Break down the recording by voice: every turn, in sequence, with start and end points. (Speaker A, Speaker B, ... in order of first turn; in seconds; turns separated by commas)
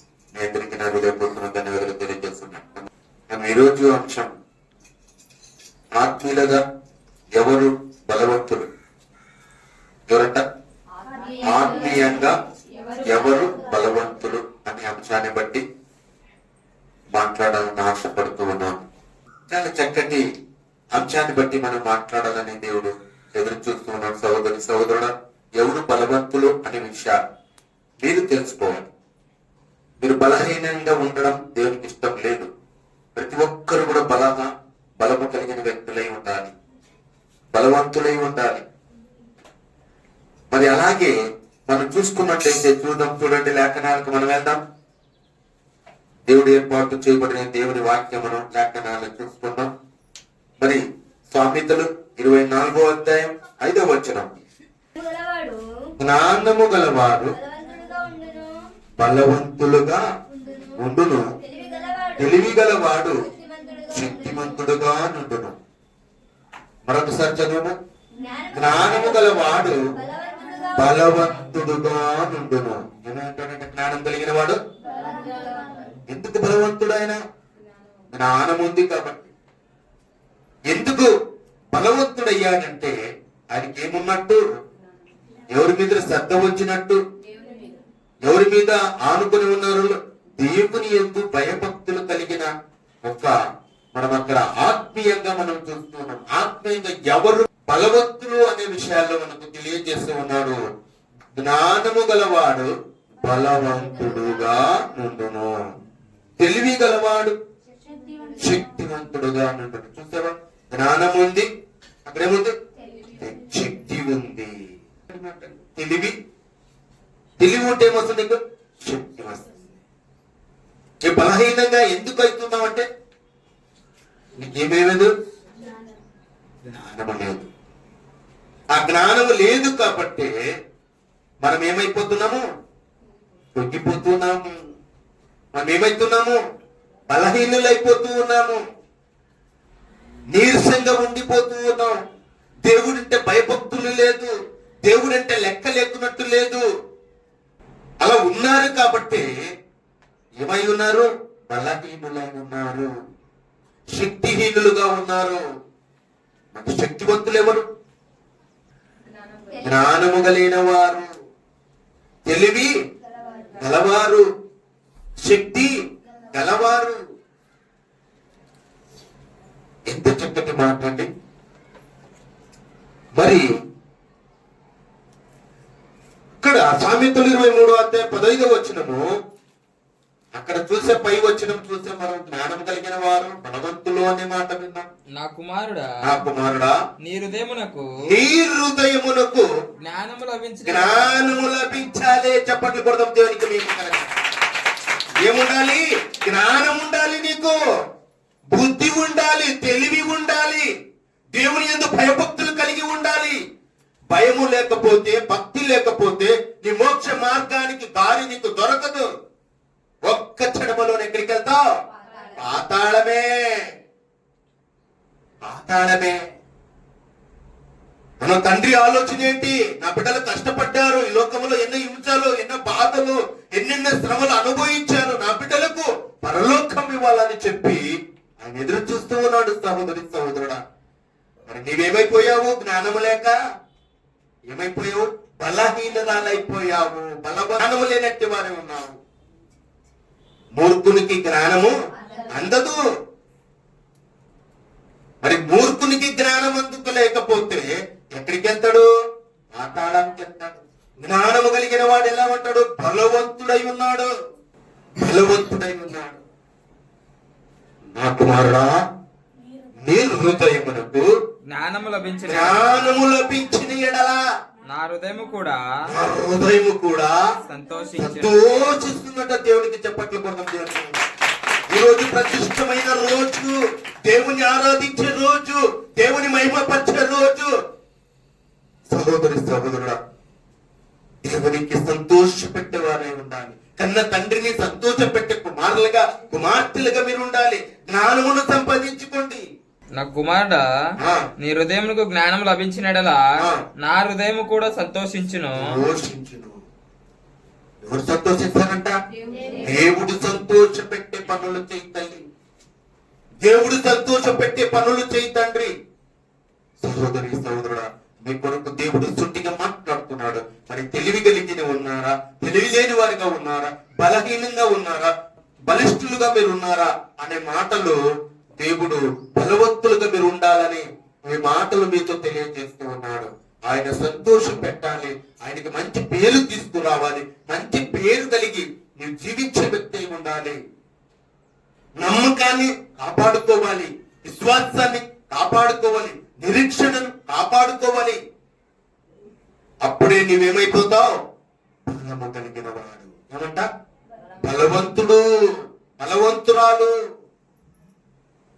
Speaker A: 0.3-4.3, Speaker A: 6.0-6.6, Speaker A: 7.3-8.7, Speaker A: 10.1-10.4, Speaker B: 11.3-12.1, Speaker A: 11.4-12.3, Speaker A: 13.0-15.6, Speaker A: 17.1-18.8, Speaker A: 19.5-20.2, Speaker A: 20.9-27.2, Speaker A: 28.0-28.9, Speaker A: 30.0-32.5, Speaker A: 33.1-36.5, Speaker A: 37.5-38.6, Speaker A: 40.5-41.1, Speaker A: 41.7-44.6, Speaker A: 46.2-49.7, Speaker A: 51.3-54.4, Speaker B: 55.0-55.6, Speaker A: 56.0-57.4, Speaker B: 57.4-58.6, Speaker A: 59.0-60.0, Speaker A: 60.7-61.2, Speaker B: 61.5-62.2, Speaker A: 62.1-63.3, Speaker B: 63.3-64.4, Speaker A: 63.9-65.5, Speaker A: 66.9-67.7, Speaker B: 68.3-69.3, Speaker A: 68.5-69.8, Speaker B: 70.0-70.7, Speaker A: 70.7-74.6, Speaker B: 75.0-75.8, Speaker A: 76.1-77.2, Speaker A: 78.1-79.3, Speaker A: 80.7-81.1, Speaker A: 81.7-82.9, Speaker A: 83.5-84.4, Speaker A: 85.5-87.0, Speaker A: 88.2-92.5, Speaker A: 93.0-93.3, Speaker A: 93.9-100.6, Speaker A: 101.4-105.5, Speaker A: 106.4-107.3, Speaker B: 107.9-108.3, Speaker A: 108.4-111.5, Speaker A: 112.0-112.5, Speaker A: 113.1-114.5, Speaker A: 115.0-116.1, Speaker A: 117.4-119.7, Speaker A: 121.0-122.8, Speaker A: 124.4-125.1, Speaker A: 126.6-127.5, Speaker A: 128.7-130.3, Speaker A: 131.4-132.4, Speaker A: 133.5-134.5, Speaker A: 135.5-136.4, Speaker A: 137.1-138.6, Speaker A: 140.3-142.0, Speaker A: 142.6-144.3, Speaker A: 144.9-146.6, Speaker A: 148.0-149.2, Speaker A: 150.4-152.9, Speaker A: 153.9-155.4, Speaker A: 156.5-157.6, Speaker A: 159.6-161.1, Speaker A: 162.2-162.7, Speaker A: 163.5-164.2, Speaker A: 165.2-165.7, Speaker A: 166.3-167.0, Speaker A: 169.9-171.1, Speaker A: 173.2-173.5, Speaker A: 176.4-179.0, Speaker A: 180.3-184.8, Speaker C: 185.2-185.9, Speaker A: 186.0-186.7, Speaker C: 187.0-187.9, Speaker A: 188.0-189.4, Speaker C: 189.8-191.3, Speaker A: 190.6-194.1, Speaker A: 195.2-197.6, Speaker A: 198.5-200.7, Speaker A: 201.3-203.4, Speaker A: 204.1-209.0, Speaker A: 210.0-211.6, Speaker C: 211.9-212.4, Speaker A: 212.3-213.6, Speaker A: 215.4-216.1, Speaker A: 218.2-227.8, Speaker A: 228.4-230.6, Speaker A: 231.5-233.3, Speaker A: 234.5-239.0, Speaker A: 240.6-241.7, Speaker A: 242.3-242.8, Speaker A: 245.2-248.8, Speaker A: 249.5-254.1, Speaker A: 255.0-256.2, Speaker A: 257.9-258.7, Speaker A: 259.8-261.1, Speaker C: 261.5-263.0, Speaker A: 262.2-264.2, Speaker C: 264.7-265.6, Speaker A: 265.9-267.1, Speaker C: 267.4-268.3, Speaker A: 268.0-271.0, Speaker A: 271.7-273.5, Speaker A: 274.0-277.5, Speaker A: 278.9-280.0, Speaker A: 281.2-289.4, Speaker C: 290.0-290.6, Speaker C: 291.4-293.2, Speaker C: 293.8-295.6, Speaker A: 295.6-296.5, Speaker A: 297.8-298.9, Speaker A: 299.6-302.2, Speaker A: 303.4-305.7, Speaker A: 306.8-315.1, Speaker A: 315.7-318.0, Speaker A: 318.6-330.6, Speaker A: 332.0-338.2, Speaker A: 339.8-341.1, Speaker A: 341.9-343.6, Speaker A: 344.4-345.2, Speaker A: 346.0-346.9